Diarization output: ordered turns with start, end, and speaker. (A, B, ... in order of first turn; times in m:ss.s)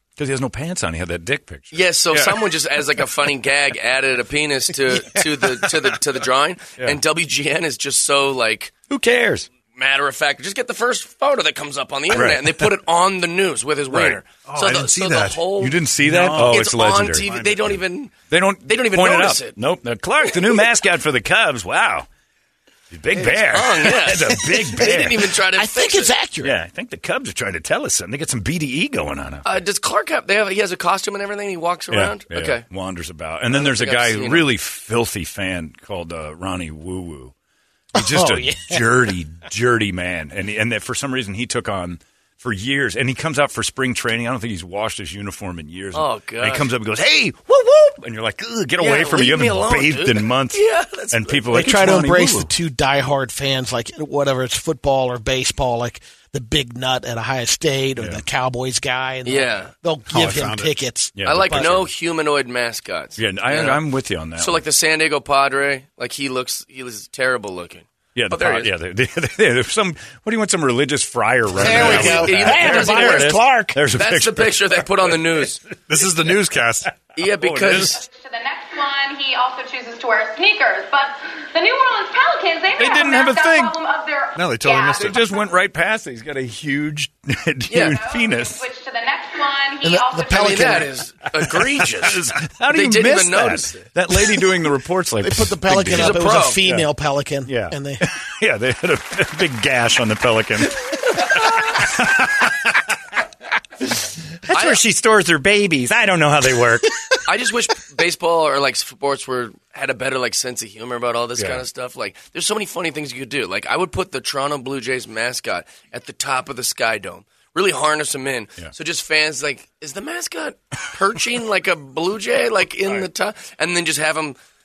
0:00.2-0:02.5 A
0:01.7-0:08.7 B
0:08.9-0:09.5 A
0:09.7-0:19.6 B
0:12.1-0:12.7 A
0:13.9-0:14.2 A
0:14.5-0:15.5 C
0:15.5-0:17.3 A
0:16.0-0:17.8 C
0:18.3-0:22.1 A
0:22.9-0:25.3 A
0:23.2-0:26.1 B
0:24.5-0:24.9 D
0:25.6-0:26.6 D
0:26.4-0:29.5 A
0:29.4-0:32.7 B
0:31.9-0:37.3 A
0:33.5-0:34.5 B
0:38.0-0:52.5 A
0:38.0-0:39.1 D
0:45.9-0:46.7 B
0:48.8-0:51.7 B
0:51.5-1:01.8 D
0:58.0-0:58.2 A
0:59.2-0:59.7 B
1:00.1-1:00.8 C
1:01.2-1:01.9 A
1:01.2-1:03.8 B
1:03.2-1:04.6 A
1:04.4-1:08.7 B
1:08.2-1:15.4 A
1:11.5-1:13.8 D
1:11.5-1:13.4 B
1:13.9-1:15.6 B
1:15.9-1:16.9 C
1:17.2-1:18.0 B
1:17.4-1:17.9 A
1:17.9-1:25.3 E
1:22.8-1:23.8 A
1:24.4-1:25.3 C
1:25.0-1:28.6 A
1:27.7-1:28.0 B
1:27.9-1:30.8 E
1:29.8-1:30.9 D
1:30.3-1:33.9 B
1:31.4-1:36.9 A
1:35.2-1:38.0 D
1:35.9-1:36.6 B
1:37.5-1:42.8 A
1:44.5-1:47.1 A
1:44.5-1:44.8 B
1:47.3-2:04.4 B
1:51.4-1:51.6 A